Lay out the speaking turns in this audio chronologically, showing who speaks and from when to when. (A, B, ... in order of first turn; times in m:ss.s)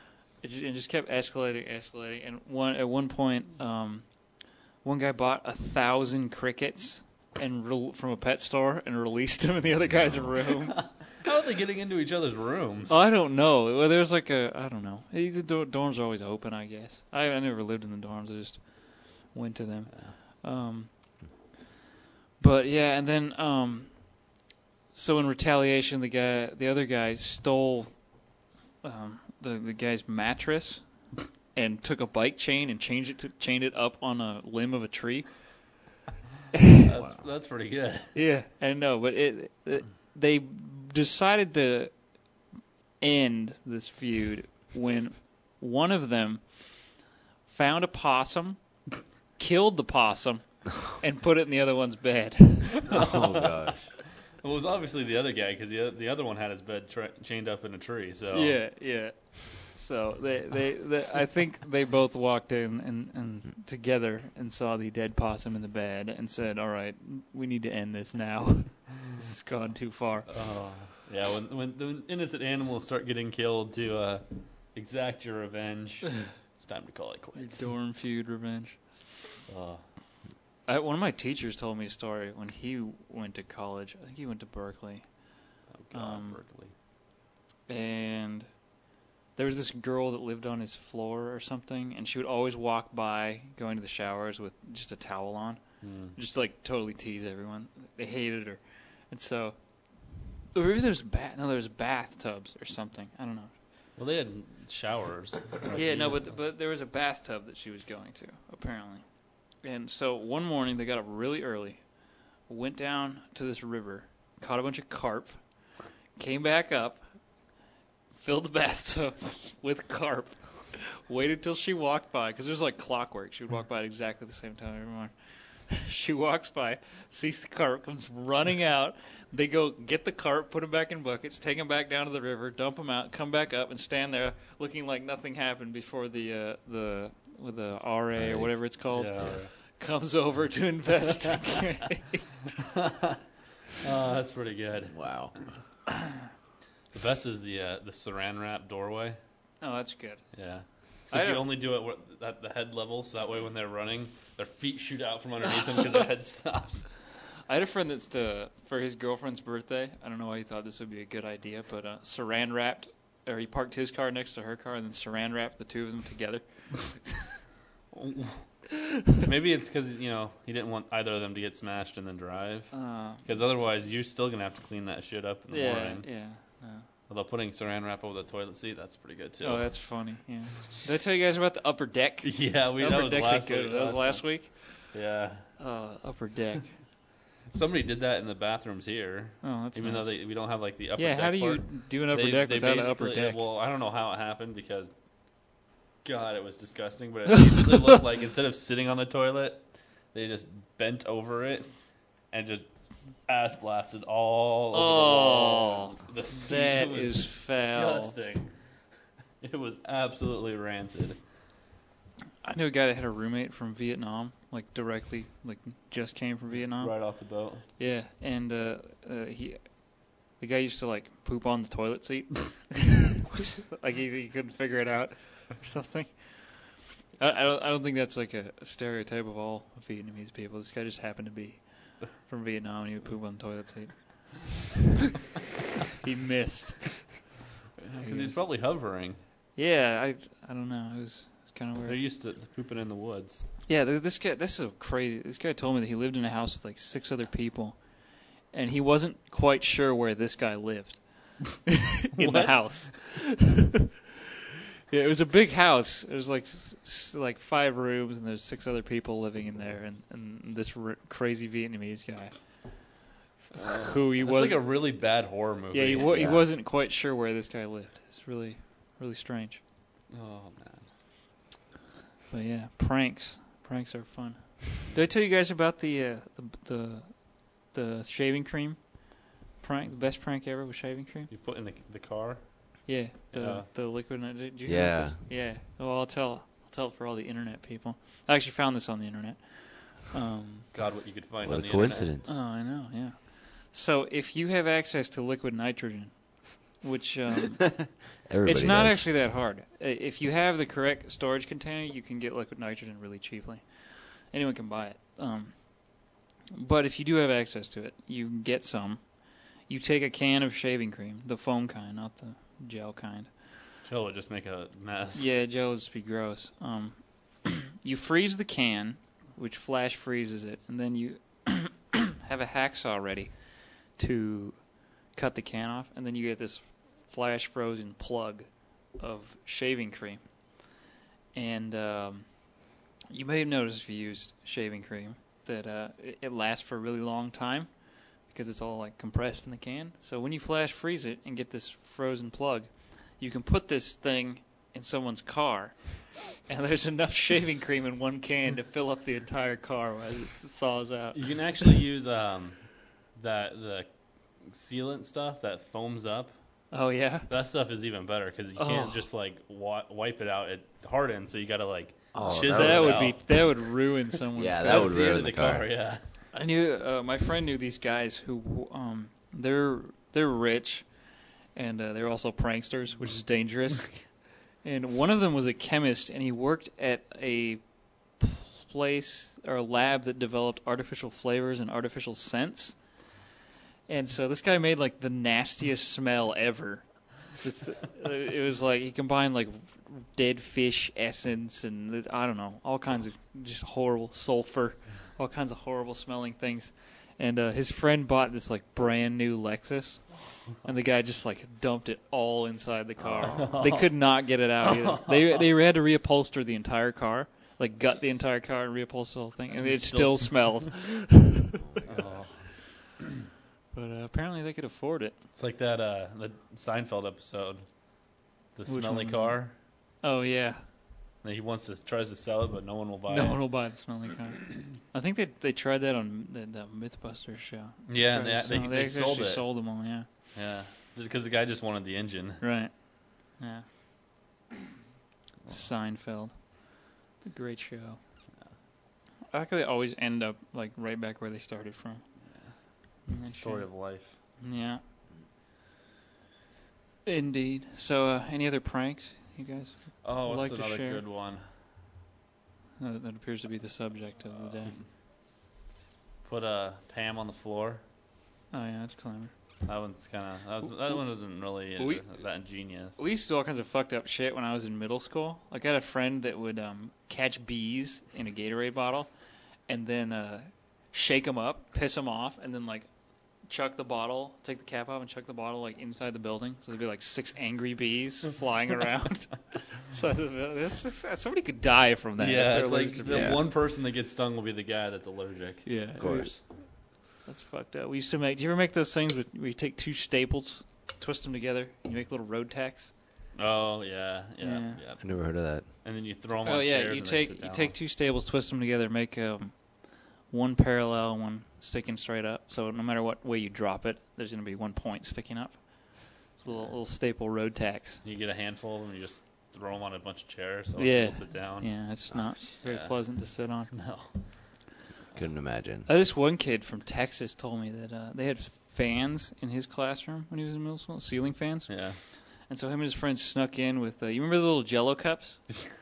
0:00.4-0:04.1 A
0:04.8-0:11.0 A
0:11.0-0:13.0 B
0:12.9-0:21.2 A
0:22.4-0:24.3 A
0:24.9-0:28.1 A
0:28.8-0:35.6 A
0:36.8-0:38.2 B
0:37.0-0:37.2 C
0:38.1-0:42.0 A
0:43.0-0:46.9 A
0:47.5-0:48.8 A
0:49.4-0:53.0 A
0:52.9-0:53.7 B
0:52.9-0:53.9 C
0:54.4-0:58.6 B
0:58.3-1:10.3 A
1:10.3-1:17.7 B
1:17.4-1:18.8 A
1:19.5-1:19.8 B
1:20.7-1:25.3 A
1:25.7-1:26.7 B
1:25.9-1:26.4 A
1:27.7-1:28.6 A
1:29.4-1:35.6 A
1:35.8-1:36.2 B
1:36.2-1:43.5 A
1:44.0-1:46.4 B
1:45.7-1:55.4 A
1:56.2-1:57.0 A
1:58.1-2:05.1 A
2:05.7-2:22.4 A
2:18.2-2:18.5 C
2:18.8-2:19.5 B
2:22.7-2:23.2 B
2:23.8-2:25.1 B
2:24.9-2:25.4 C
2:26.9-2:29.2 B
2:29.6-2:30.4 A
2:30.3-2:36.9 B
2:31.1-2:31.5 A
2:37.5-2:47.2 A
2:47.9-2:56.3 B
2:52.7-2:53.3 A
2:55.5-2:56.9 A
2:57.1-2:59.8 B
2:59.4-3:04.9 A
3:02.2-3:05.5 B
3:05.6-3:06.8 A
3:07.5-3:22.7 B
3:09.4-3:10.2 A
3:11.0-3:13.4 A
3:23.3-3:28.6 B
3:24.7-3:28.1 A
3:29.4-3:31.2 B
3:32.4-3:37.2 A
3:36.8-3:37.7 B
3:37.8-3:54.6 A
3:56.0-3:57.2 A
3:57.8-3:59.2 B
3:57.9-3:58.5 A
3:59.6-4:02.0 A
4:01.8-4:03.5 B
4:03.7-4:13.6 A
4:12.2-4:12.9 B
4:14.9-4:22.9 A
4:23.6-4:25.0 A
4:23.6-4:26.5 B
4:25.7-4:29.6 A
4:26.1-4:26.4 C
4:30.1-4:30.9 B
4:32.3-4:41.3 A
4:41.3-4:43.7 B
4:42.9-4:50.7 A
4:44.7-4:45.2 C
4:50.7-4:52.3 B
4:51.4-4:52.3 C
4:52.2-5:13.6 A
4:58.2-4:59.1 C
5:13.8-5:15.3 B
5:15.2-5:30.5 A
5:31.3-5:51.7 A
5:51.1-5:56.6 B
5:56.7-5:57.3 A
5:57.3-6:03.6 B
5:58.6-5:59.0 A
6:02.1-6:03.2 C
6:02.2-6:05.0 A
6:04.4-6:05.7 C
6:04.6-6:06.0 B
6:06.3-6:23.0 A
6:23.9-6:52.2 A
6:43.0-6:43.5 C
6:43.2-6:45.4 B
6:49.5-6:50.7 B
6:51.6-6:52.2 C
6:51.9-6:52.8 B
6:53.7-6:55.2 A
6:55.3-6:59.6 B
6:58.7-7:00.7 A
7:01.2-7:03.5 B
7:03.1-7:10.1 A
7:07.9-7:09.5 B
7:10.3-7:12.4 B
7:12.4-7:14.1 A
7:15.5-7:18.0 A
7:19.3-7:22.2 A
7:22.4-7:24.2 B
7:23.1-7:24.8 A
7:27.0-7:31.0 A
7:30.0-7:31.5 B
7:32.8-7:34.8 A
7:36.2-7:37.8 B
7:38.5-7:39.3 A
7:39.6-7:43.0 B
7:41.6-7:42.1 A
7:43.0-7:49.1 A
7:49.7-7:52.9 A
7:53.4-8:03.5 A
8:02.2-8:05.7 B
8:03.1-8:03.4 C
8:05.6-8:12.9 A
8:06.0-8:06.4 C
8:13.4-8:17.8 B
8:14.4-8:14.8 A
8:15.0-8:15.7 C
8:16.4-8:28.0 A
8:26.5-8:26.7 B
8:28.0-8:31.8 B
8:30.8-8:33.7 A
8:32.4-8:34.4 B
8:35.2-8:35.9 C
8:35.9-8:45.6 A
8:41.7-8:42.0 B